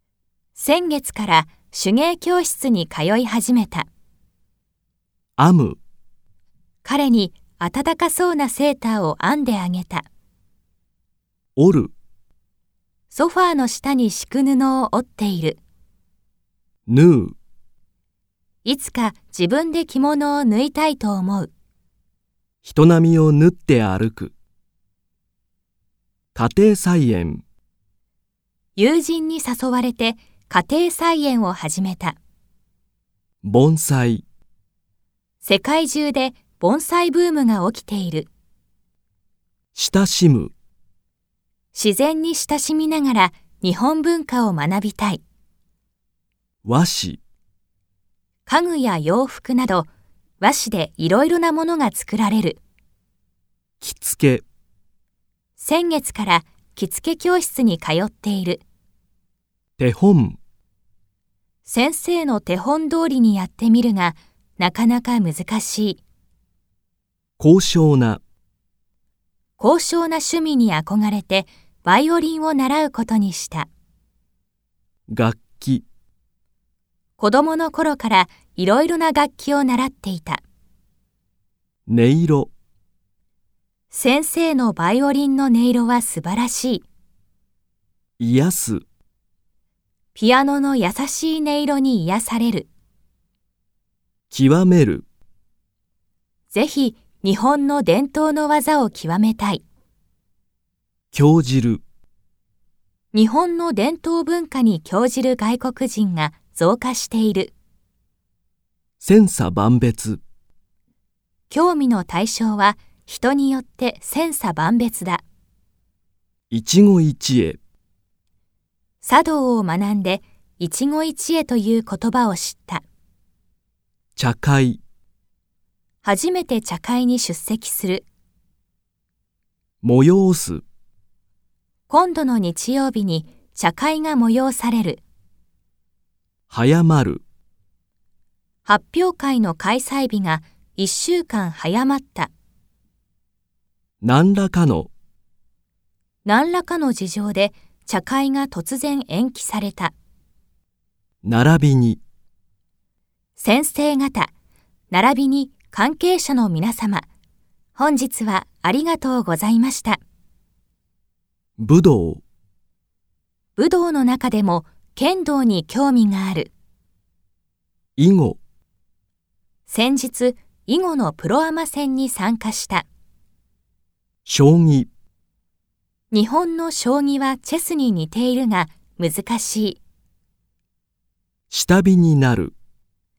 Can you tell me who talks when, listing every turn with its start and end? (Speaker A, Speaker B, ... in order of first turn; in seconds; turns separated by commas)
Speaker A: 0.6-3.9, Speaker B: 5.4-5.8, Speaker A: 6.8-10.1, Speaker B: 11.6-11.9, Speaker A: 13.1-15.6, Speaker B: 16.9-17.4, Speaker A: 18.6-21.5, Speaker B: 22.6-24.3, Speaker B: 26.3-27.4, Speaker A: 28.8-32.2, Speaker B: 33.4-34.2, Speaker A: 35.4-38.3, Speaker B: 39.7-40.5, Speaker A: 41.7-45.2, Speaker B: 46.6-47.2, Speaker A: 48.5-49.9, Speaker A: 50.4-52.6, Speaker B: 53.8-54.4, Speaker A: 55.6-58.6, Speaker B: 59.8-60.4, Speaker A: 61.7-66.0, Speaker B: 67.4-68.2, Speaker A: 69.6-73.7, Speaker B: 75.1-75.8, Speaker A: 77.2-80.4, Speaker B: 81.9-82.5, Speaker A: 83.9-86.8, Speaker B: 88.2-88.8, Speaker A: 90.2-92.7, Speaker B: 94.3-95.0, Speaker A: 96.5-99.6, Speaker B: 101.1-101.8, Speaker A: 103.1-107.5, Speaker B: 109.0-110.2, Speaker A: 111.5-115.2, Speaker B: 116.5-117.6, Speaker A: 119.0-122.8, Speaker B: 124.2-124.8, Speaker A: 126.0-128.0, Speaker B: 129.8-130.6, Speaker A: 131.9-135.0, Speaker B: 136.5-137.2, Speaker A: 138.7-142.3, Speaker B: 144.0-144.9, Speaker A: 146.2-149.9, Speaker B: 151.2-152.0, Speaker A: 153.4-154.3, Speaker A: 154.9-157.1, Speaker A: 157.8-160.0, Speaker B: 161.6-162.2, Speaker A: 163.6-166.5, Speaker B: 168.0-168.4, Speaker A: 169.7-172.8, Speaker B: 174.2-174.9, Speaker A: 176.1-179.8, Speaker B: 181.5-182.5